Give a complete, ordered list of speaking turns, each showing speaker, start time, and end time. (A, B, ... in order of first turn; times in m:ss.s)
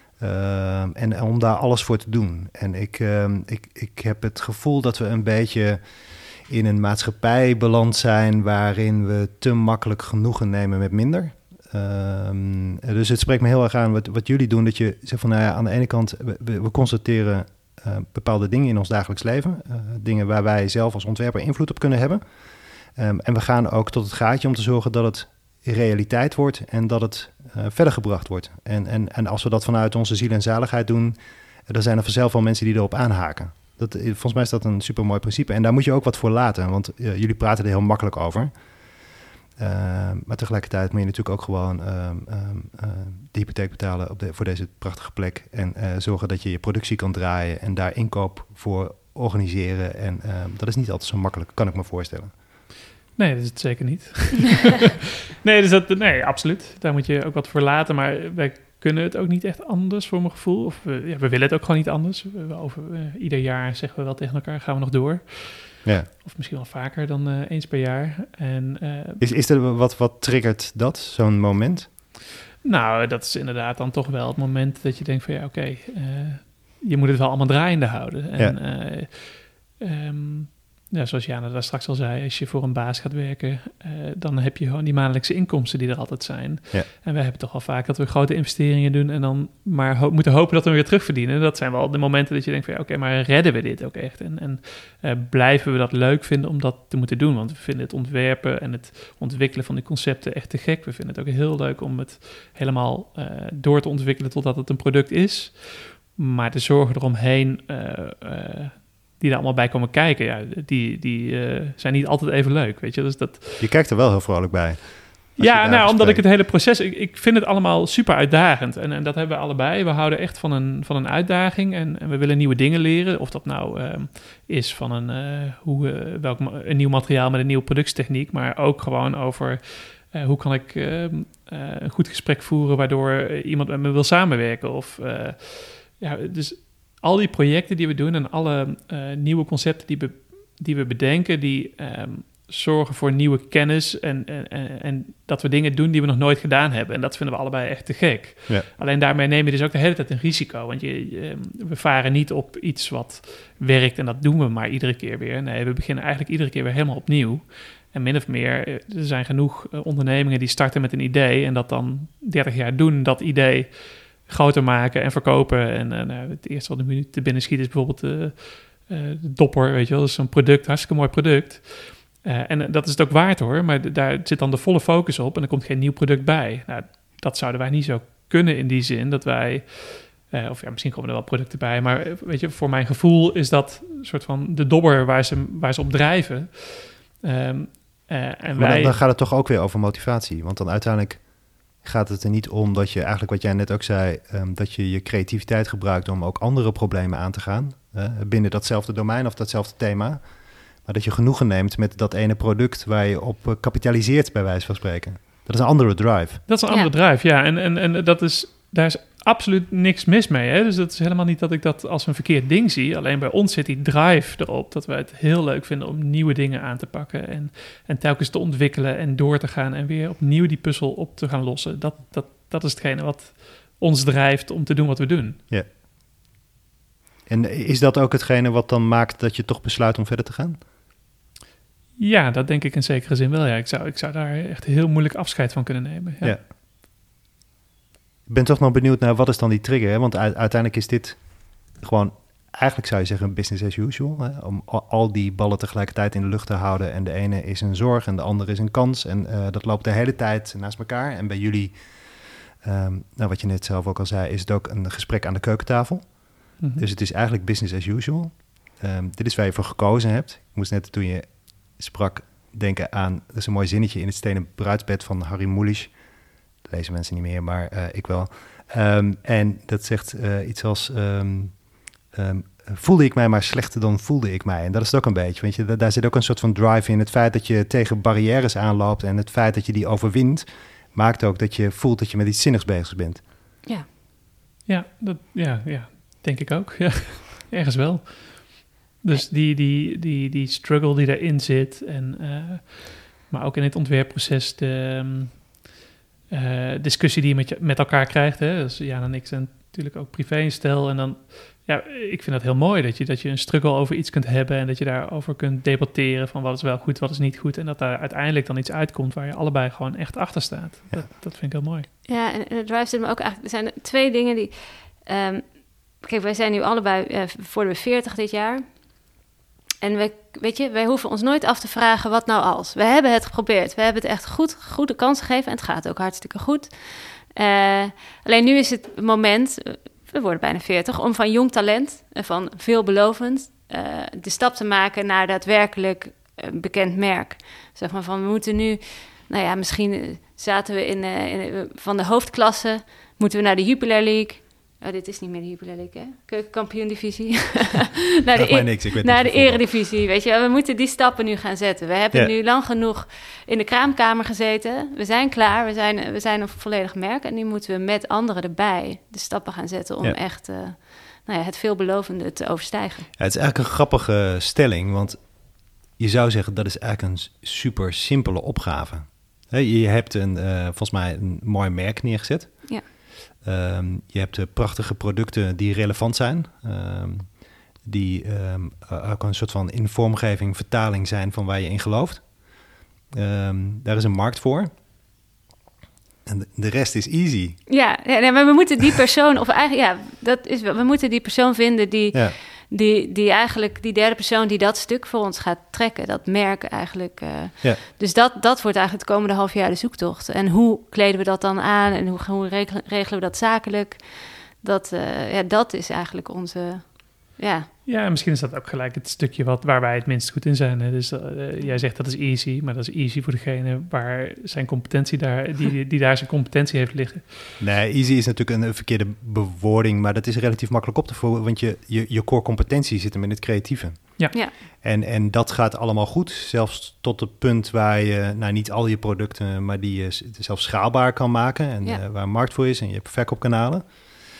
0:00.2-0:22.2 A
0:23.0-0:31.2 A
0:31.7-0:38.5 A
0:39.6-0:52.3 A
0:53.2-0:54.9 B
0:55.4-1:09.2 B
1:05.8-1:06.1 A
1:09.2-1:11.9 A
1:12.6-1:53.7 B
1:53.6-1:56.2 A
1:55.4-3:09.0 B
3:08.6-3:20.3 A
3:20.8-3:26.4 A
3:26.5-3:45.4 B
3:47.3-3:50.6 A
3:52.0-3:56.4 B
3:58.3-4:11.8 A
4:12.6-4:25.9 A
4:16.6-4:16.8 B
4:26.6-4:43.2 A
4:44.6-4:55.7 B
4:56.3-5:11.9 B
5:12.1-5:18.6 C
5:19.8-6:03.1 C
5:48.3-5:49.7 A
6:03.2-6:24.7 A
6:26.2-6:27.6 A
6:27.7-6:47.7 C
6:47.8-6:57.6 B
6:57.6-7:14.0 A